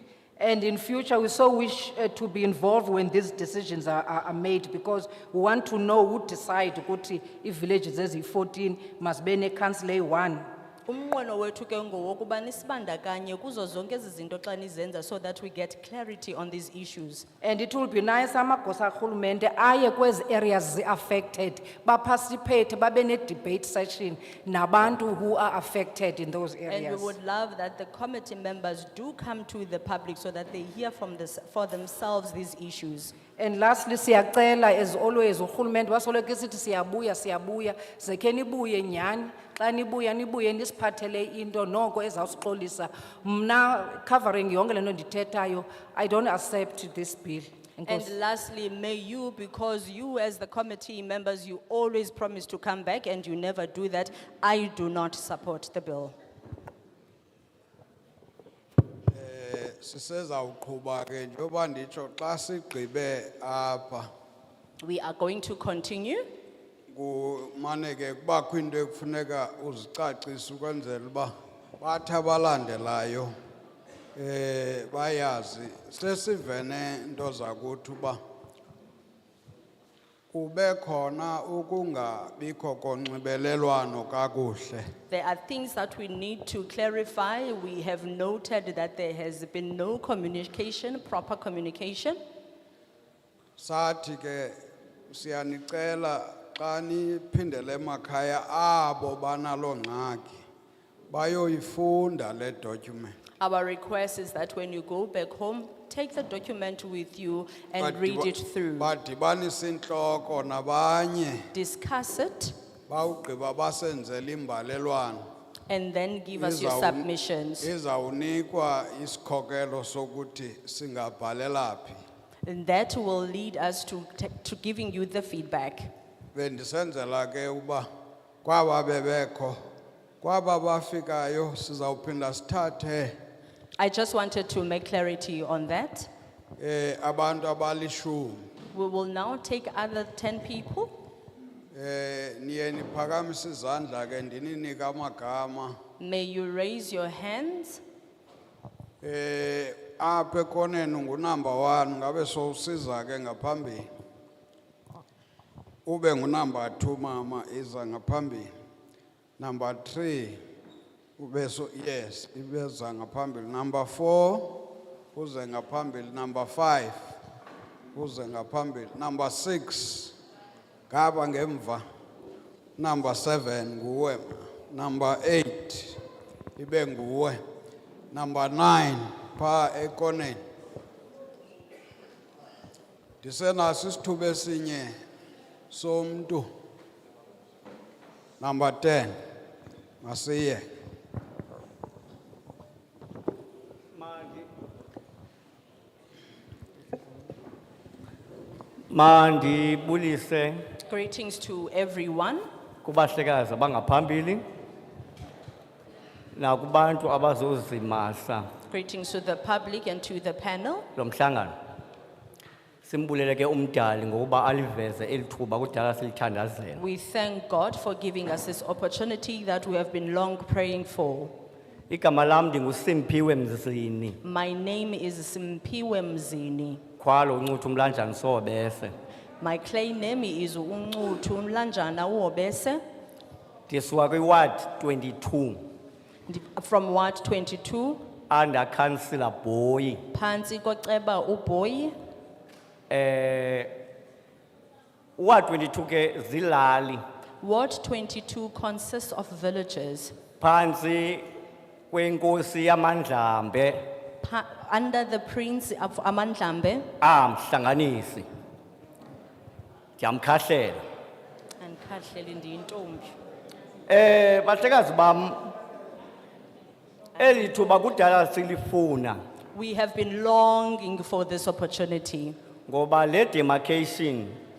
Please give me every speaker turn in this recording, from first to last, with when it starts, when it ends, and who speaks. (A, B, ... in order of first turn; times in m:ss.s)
0:00.4-0:10.4 A
0:10.9-0:17.2 B
0:17.4-0:27.1 A
0:26.7-0:33.1 B
0:33.4-0:48.1 A
0:47.8-0:56.1 B
0:59.1-1:04.1 C
1:04.8-1:06.3 B
1:06.9-1:13.3 C
1:14.2-1:18.2 C
1:20.3-1:24.8 C
1:25.1-1:32.2 B
1:33.6-1:34.5 C
1:35.1-1:40.4 C
1:41.1-1:43.2 C
1:43.4-1:48.9 B
1:47.8-1:51.4 C
1:51.5-1:52.5 B
1:52.9-1:55.2 C
1:55.7-1:57.7 B
1:56.4-1:57.1 C
1:57.6-2:02.0 C
2:02.4-2:05.9 B
2:06.3-2:07.9 C
2:08.4-2:09.6 C
2:10.2-2:13.1 C
2:13.8-2:16.1 B
2:16.6-2:18.4 C
2:18.7-2:20.9 B
2:21.7-2:25.8 C
2:26.0-2:27.8 B
2:29.0-2:33.9 C
2:35.8-2:38.5 C
2:39.4-2:40.4 C
2:41.2-2:47.1 C
2:47.9-2:50.1 C
2:50.9-2:51.8 C
2:52.8-2:56.0 C
2:56.6-2:57.4 C
2:58.1-3:00.4 C
3:03.2-3:04.9 C
3:05.7-3:06.5 C
3:08.4-3:09.1 C
3:10.0-3:10.6 C
3:13.9-3:14.4 D
3:18.9-3:20.6 D
3:20.8-3:22.4 B
3:22.8-3:24.4 D
3:26.3-3:28.5 D
3:28.7-3:30.9 B
3:31.0-3:31.5 D
3:32.8-3:36.8 D
3:36.7-3:41.3 B
3:41.9-3:44.2 D
3:44.2-3:46.8 B
3:47.0-3:48.9 D
3:49.4-3:52.8 B
3:53.7-3:55.6 D
3:56.3-3:58.0 B
3:58.3-4:00.0 D
4:00.1-4:01.9 B
4:02.9-4:03.7 D
4:05.2-4:07.0 D
4:07.4-4:10.1 B
4:10.4-4:11.2 D
4:11.9-4:13.8 D
4:14.2-4:16.9 B
4:17.0-4:18.3 D
4:20.0-4:20.8 D
4:21.6-4:23.1 B
4:23.9-4:25.5 D
4:27.2-4:29.2 D
4:29.5-4:32.4 B
4:32.7-4:34.4 D